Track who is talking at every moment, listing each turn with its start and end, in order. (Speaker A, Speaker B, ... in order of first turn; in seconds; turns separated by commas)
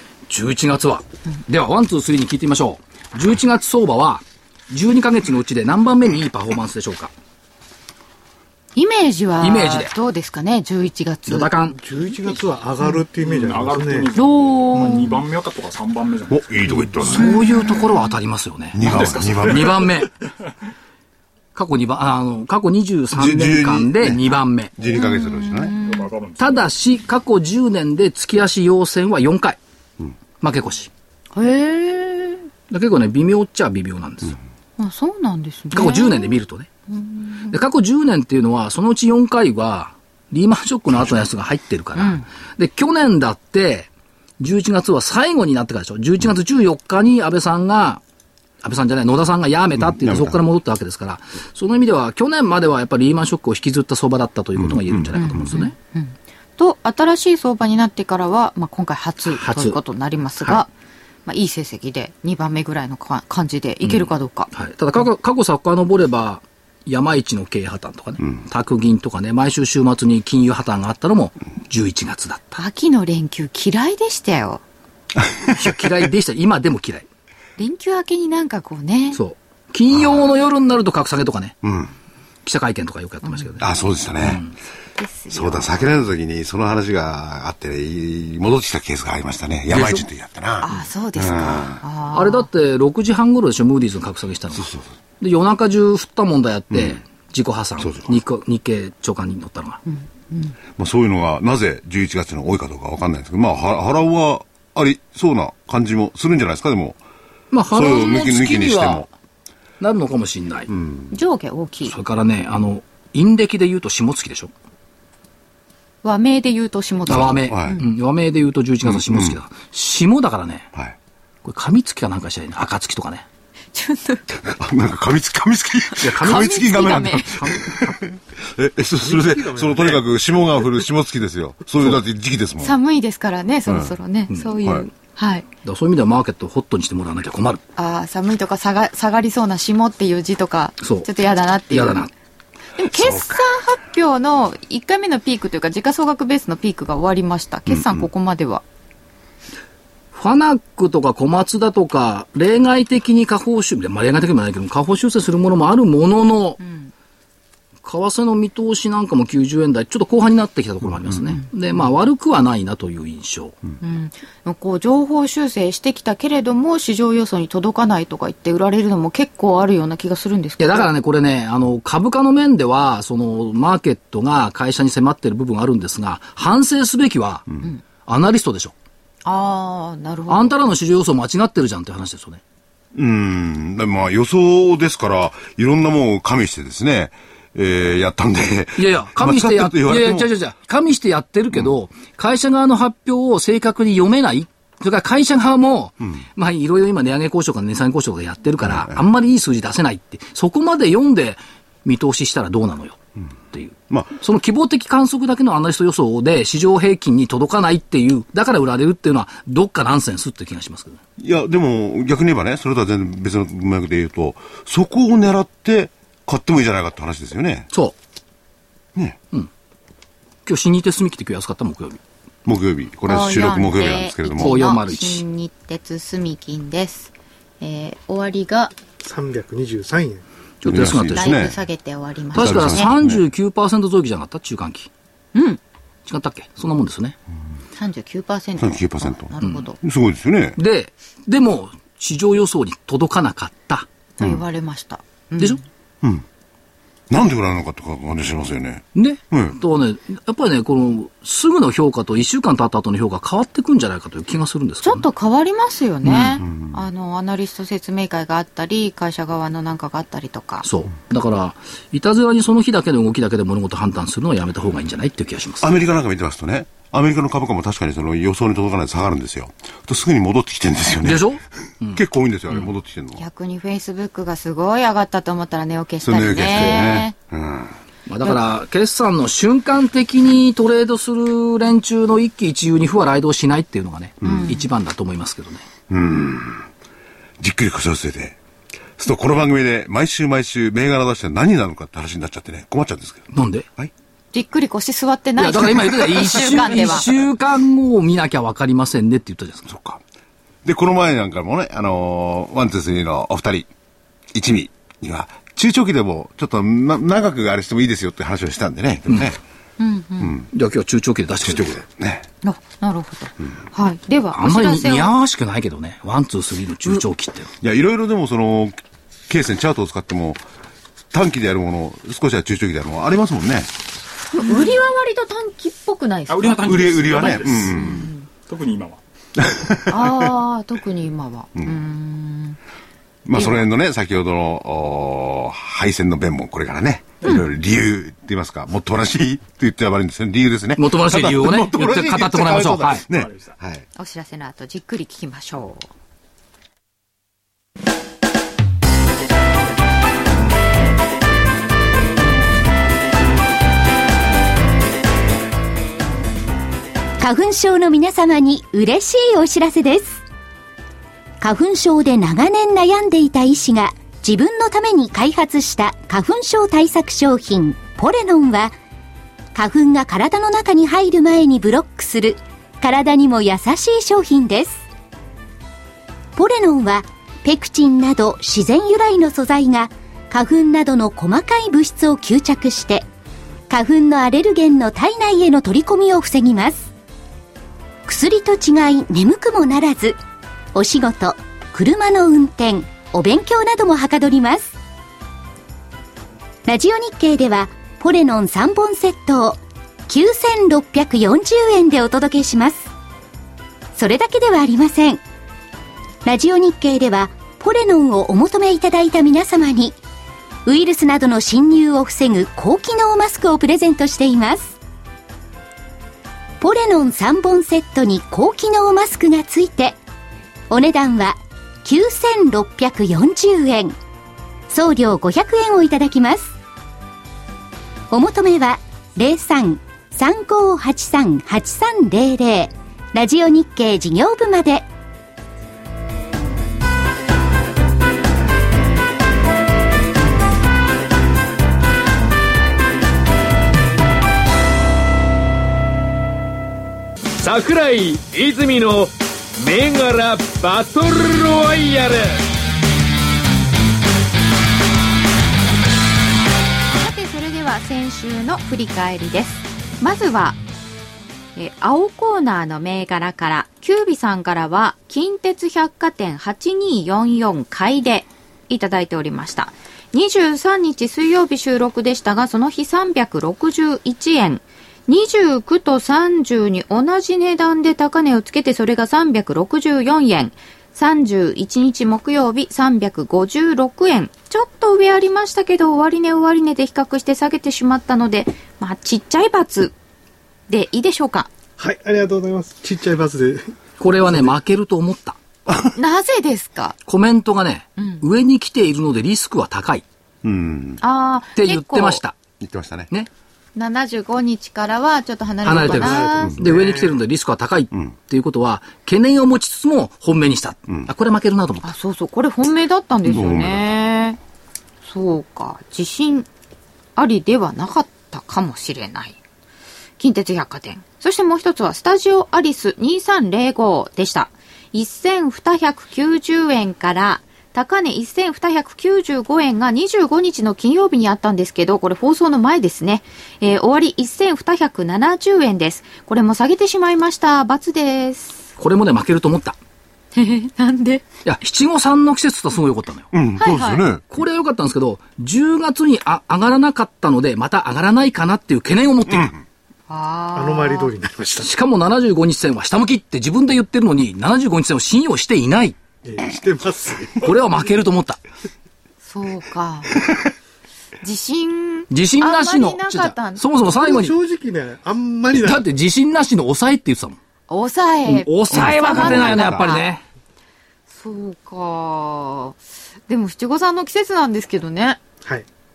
Speaker A: 0.3-7.1, Speaker B: 8.8-11.5, Speaker A: 9.4-9.9, Speaker A: 11.2-11.8, Speaker C: 11.7-14.1, Speaker D: 13.2-16.5, Speaker B: 14.1-15.2, Speaker E: 16.3-17.4, Speaker A: 17.0-20.1, Speaker B: 17.1-18.2, Speaker E: 18.7-19.9, Speaker D: 18.9-19.4, Speaker A: 21.6-24.7, Speaker E: 23.1-25.7, Speaker B: 24.9-26.1, Speaker D: 25.8-26.7, Speaker A: 26.4-29.6, Speaker A: 30.4-30.9, Speaker B: 31.3-32.4, Speaker A: 32.7-34.4, Speaker B: 34.8-36.4, Speaker A: 35.7-36.7, Speaker B: 36.9-37.6, Speaker A: 37.5-48.0, Speaker B: 42.0-42.2, Speaker A: 48.6-55.8, Speaker E: 49.8-50.4, Speaker E: 54.6-55.5, Speaker B: 55.1-60.7, Speaker A: 59.3-59.8, Speaker B: 61.2-64.5, Speaker A: 63.8-72.6, Speaker B: 72.5-74.6, Speaker E: 75.2-75.8, Speaker A: 75.5-77.1, Speaker B: 77.6-79.2, Speaker A: 79.1-81.6, Speaker E: 81.6-81.9, Speaker A: 82.4-83.7, Speaker E: 83.6-84.4, Speaker A: 84.2-84.5, Speaker B: 85.0-85.8, Speaker E: 85.3-91.8, Speaker A: 89.7-90.1, Speaker B: 90.6-92.5, Speaker A: 92.1-99.8, Speaker E: 94.5-94.8, Speaker E: 96.7-97.0, Speaker E: 97.8-98.1, Speaker B: 99.9-100.6, Speaker E: 100.8-107.0, Speaker A: 107.5-109.1, Speaker E: 107.7-109.1, Speaker A: 109.8-110.7, Speaker E: 110.7-111.1, Speaker B: 111.1-112.0, Speaker A: 111.8-114.5, Speaker B: 116.0-117.9, Speaker A: 117.1-120.7, Speaker E: 117.5-117.8, Speaker E: 118.8-119.4, Speaker A: 121.4-123.2, Speaker B: 123.7-124.2, Speaker E: 124.4-132.8, Speaker A: 126.0-128.0, Speaker B: 126.2-127.3, Speaker C: 129.0-130.0, Speaker B: 132.6-135.5, Speaker E: 133.7-134.0, Speaker A: 135.6-137.6, Speaker B: 137.8-142.1, Speaker A: 140.8-141.1, Speaker A: 141.7-142.1, Speaker B: 142.8-148.6, Speaker E: 142.9-143.4, Speaker E: 147.7-148.1, Speaker A: 150.1-156.6, Speaker B: 156.6-156.9, Speaker A: 157.8-163.6, Speaker E: 161.1-161.3, Speaker B: 163.8-170.9, Speaker A: 170.6-178.7, Speaker B: 179.2-180.6, Speaker A: 180.3-182.4, Speaker E: 182.9-190.3, Speaker A: 188.8-203.0, Speaker E: 198.6-199.0, Speaker A: 203.5-211.0, Speaker E: 203.9-204.2, Speaker E: 211.2-217.7, Speaker E: 218.9-219.2, Speaker A: 220.4-222.0, Speaker E: 222.4-224.6, Speaker B: 223.1-228.7, Speaker A: 224.4-225.2, Speaker C: 229.0-230.2, Speaker A: 230.6-231.4, Speaker E: 230.6-231.6, Speaker B: 231.1-232.9, Speaker A: 232.3-234.9, Speaker E: 232.3-233.2, Speaker B: 235.3-235.6, Speaker A: 236.1-237.2, Speaker B: 237.8-239.8, Speaker E: 238.6-240.6, Speaker A: 239.4-239.7, Speaker A: 240.6-243.8, Speaker B: 244.2-245.6, Speaker E: 247.1-249.6, Speaker A: 248.9-255.1, Speaker B: 254.8-260.7, Speaker E: 256.1-256.8, Speaker A: 260.6-265.8, Speaker E: 265.6-271.3, Speaker A: 271.0-272.0, Speaker E: 271.9-273.2, Speaker B: 273.2-277.1, Speaker E: 276.0-277.7, Speaker A: 278.1-285.6, Speaker E: 284.2-284.5, Speaker B: 284.2-284.7, Speaker E: 285.9-286.7, Speaker E: 287.4-288.4, Speaker E: 289.0-293.9, Speaker A: 293.3-293.7, Speaker B: 294.3-297.2, Speaker A: 295.4-299.7, Speaker E: 299.7-300.0, Speaker E: 300.6-303.7, Speaker E: 304.3-309.4, Speaker B: 309.8-310.4, Speaker E: 310.2-310.5, Speaker A: 310.5-311.8, Speaker E: 311.4-312.3, Speaker B: 312.4-315.1, Speaker A: 314.3-317.5, Speaker E: 317.6-320.4, Speaker E: 321.1-323.7, Speaker B: 324.3-328.3, Speaker D: 326.3-327.8, Speaker E: 326.6-328.1, Speaker D: 328.5-329.0, Speaker E: 329.4-330.3, Speaker B: 329.9-332.6, Speaker E: 331.6-331.8, Speaker E: 333.2-343.8, Speaker B: 333.3-333.7, Speaker A: 340.8-343.1, Speaker D: 343.1-343.6, Speaker B: 343.9-345.9, Speaker F: 357.2-360.2, Speaker F: 361.4-368.8, Speaker F: 369.5-374.8, Speaker F: 376.3-383.1, Speaker F: 383.7-386.9, Speaker F: 388.1-390.2, Speaker F: 390.7-394.7, Speaker F: 396.7-402.9, Speaker F: 403.9-405.2, Speaker F: 406.2-410.0, Speaker F: 410.6-414.8, Speaker F: 416.6-420.0, Speaker F: 420.7-423.9, Speaker F: 424.7-426.5, Speaker F: 428.1-434.9, Speaker G: 447.4-452.4, Speaker B: 456.9-460.6, Speaker B: 461.6-489.9, Speaker B: 490.7-491.5, Speaker C: 491.8-494.6, Speaker A: 494.0-495.4, Speaker B: 495.9-496.9, Speaker A: 497.1-500.0, Speaker B: 498.0-498.3, Speaker E: 500.4-501.0, Speaker B: 501.0-502.2, Speaker A: 501.6-502.3, Speaker E: 502.6-503.1, Speaker B: 503.8-506.6, Speaker A: 505.6-511.9, Speaker C: 505.7-507.2, Speaker B: 511.8-514.4, Speaker E: 513.3-513.9, Speaker B: 515.0-516.5, Speaker B: 517.1-519.4, Speaker B: 520.2-538.6, Speaker A: 538.8-539.8, Speaker B: 540.4-541.2, Speaker A: 541.4-543.3, Speaker E: 543.3-544.3, Speaker B: 543.6-544.0, Speaker A: 544.3-549.5, Speaker B: 550.1-551.1, Speaker C: 550.5-551.7, Speaker A: 551.6-556.0, Speaker C: 556.2-557.9, Speaker A: 557.4-558.4, Speaker B: 559.2-560.1, Speaker B: 561.2-563.6, Speaker A: 562.1-564.3, Speaker C: 563.8-565.9, Speaker A: 565.5-567.4, Speaker B: 567.7-570.1, Speaker A: 568.3-570.2, Speaker E: 569.5-569.9, Speaker B: 571.1-572.8, Speaker B: 573.3-575.2